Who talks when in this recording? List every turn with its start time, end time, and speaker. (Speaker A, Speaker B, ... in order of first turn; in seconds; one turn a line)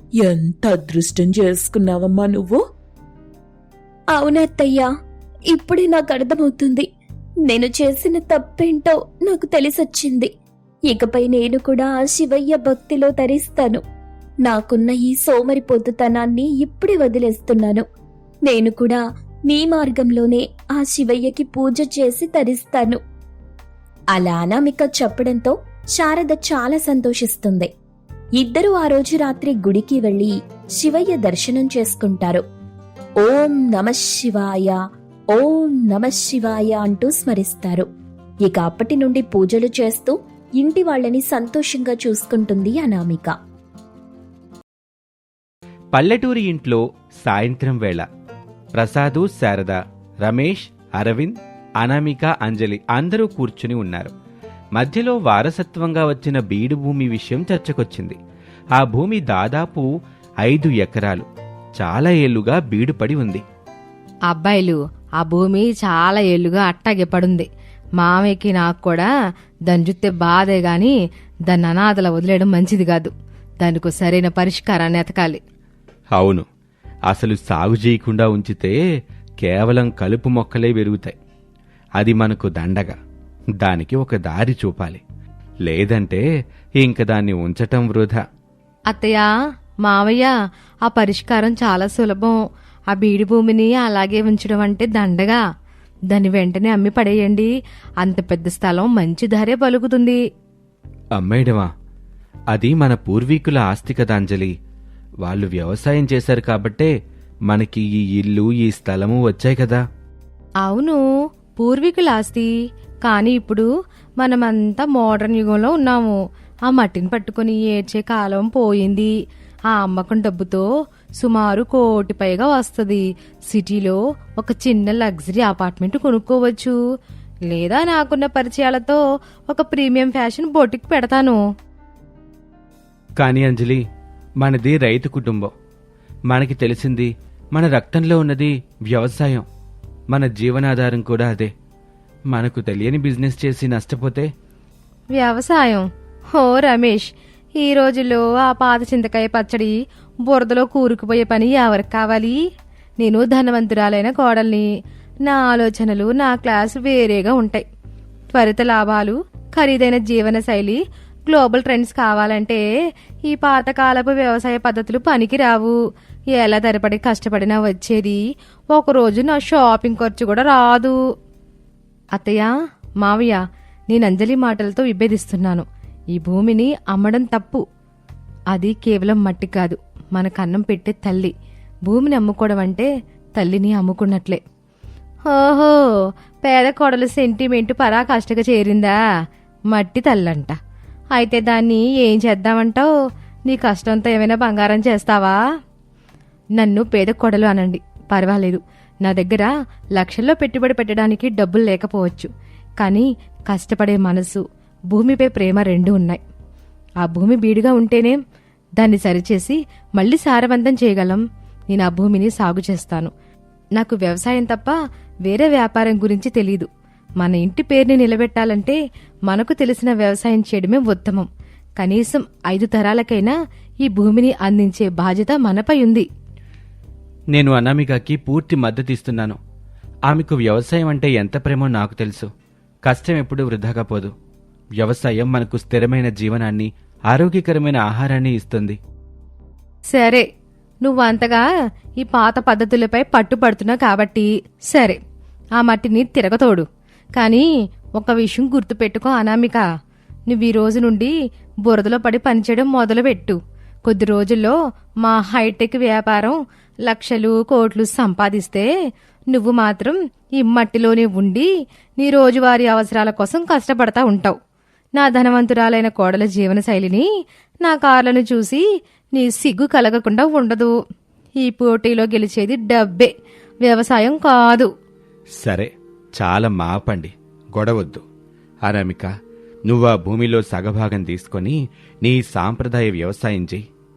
Speaker A: 0.2-2.6
Speaker B: 4.1-4.9
Speaker B: 5.5-6.9
Speaker B: 7.5-10.3
Speaker B: 10.9-13.8
Speaker B: 14.4-17.8
Speaker B: 18.5-23.0
Speaker B: 24.1-27.7
Speaker B: 28.4-32.4
Speaker B: 33.2-34.8
Speaker B: 35.3-37.9
Speaker B: 38.4-43.3
Speaker C: 45.9-48.0
Speaker C: 48.8-54.1
Speaker C: 54.8-58.2
Speaker C: 58.7-59.9
Speaker C: 60.4-61.2
Speaker C: 61.8-63.4
Speaker D: 64.3-67.5
Speaker D: 68.0-69.1
Speaker D: 69.7-70.9
Speaker D: 71.5-75.4
Speaker C: 76.1-76.5
Speaker C: 77.1-78.8
Speaker C: 79.4-81.1
Speaker C: 82.0-82.9
Speaker C: 83.6-85.0
Speaker C: 85.7-86.2
Speaker C: 86.8-88.2
Speaker D: 88.9-89.3
Speaker D: 89.8-90.3
Speaker D: 90.9-92.4
Speaker D: 92.9-95.4
Speaker D: 96.1-97.5
Speaker D: 98.0-100.2
Speaker C: 101.2-101.7
Speaker C: 102.5-104.5
Speaker C: 105.2-106.9
Speaker C: 107.5-109.8
Speaker D: 110.6-111.0
Speaker D: 111.6-112.5
Speaker D: 113.0-113.7
Speaker D: 114.2-119.1
Speaker D: 119.7-120.7
Speaker D: 121.2-126.7
Speaker D: 127.5-131.4
Speaker C: 133.2-133.8
Speaker C: 134.4-135.5
Speaker C: 136.3-139.4
Speaker C: 140.1-141.5
Speaker C: 142.3-144.3
Speaker D: 145.2-147.1
Speaker D: 147.6-149.7
Speaker D: 150.2-152.4
Speaker D: 153.0-154.7
Speaker D: 155.2-157.6
Speaker D: 158.3-162.6
Speaker D: 163.2-165.8
Speaker D: 166.3-170.9
Speaker D: 172.1-172.5
Speaker D: 173.0-177.6
Speaker D: 178.5-181.3
Speaker D: 181.8-184.4
Speaker D: 185.3-185.8
Speaker D: 186.4-189.0
Speaker D: 189.7-190.6
Speaker D: 191.1-192.9
Speaker D: 193.5-195.4
Speaker D: 196.6-202.3
Speaker D: 202.8-206.2
Speaker D: 207.0-208.2
Speaker D: 208.8-213.1
Speaker D: 213.8-216.7
Speaker D: 217.2-221.3
Speaker D: 221.8-226.1
Speaker C: 227.3-229.4
Speaker C: 230.1-232.3
Speaker C: 232.8-234.1
Speaker C: 234.8-238.8
Speaker D: 239.9-240.2
Speaker D: 240.8-241.4
Speaker D: 242.0-245.0
Speaker D: 245.6-247.5
Speaker D: 248.0-249.6
Speaker D: 250.3-251.1
Speaker D: 251.6-258.7
Speaker D: 259.3-261.5
Speaker D: 262.0-264.4
Speaker D: 264.9-267.1
Speaker D: 267.6-268.6
Speaker D: 269.1-270.7
Speaker D: 271.4-273.1
Speaker D: 273.6-274.7
Speaker C: 275.4-278.0
Speaker C: 278.6-279.1
Speaker C: 279.7-283.6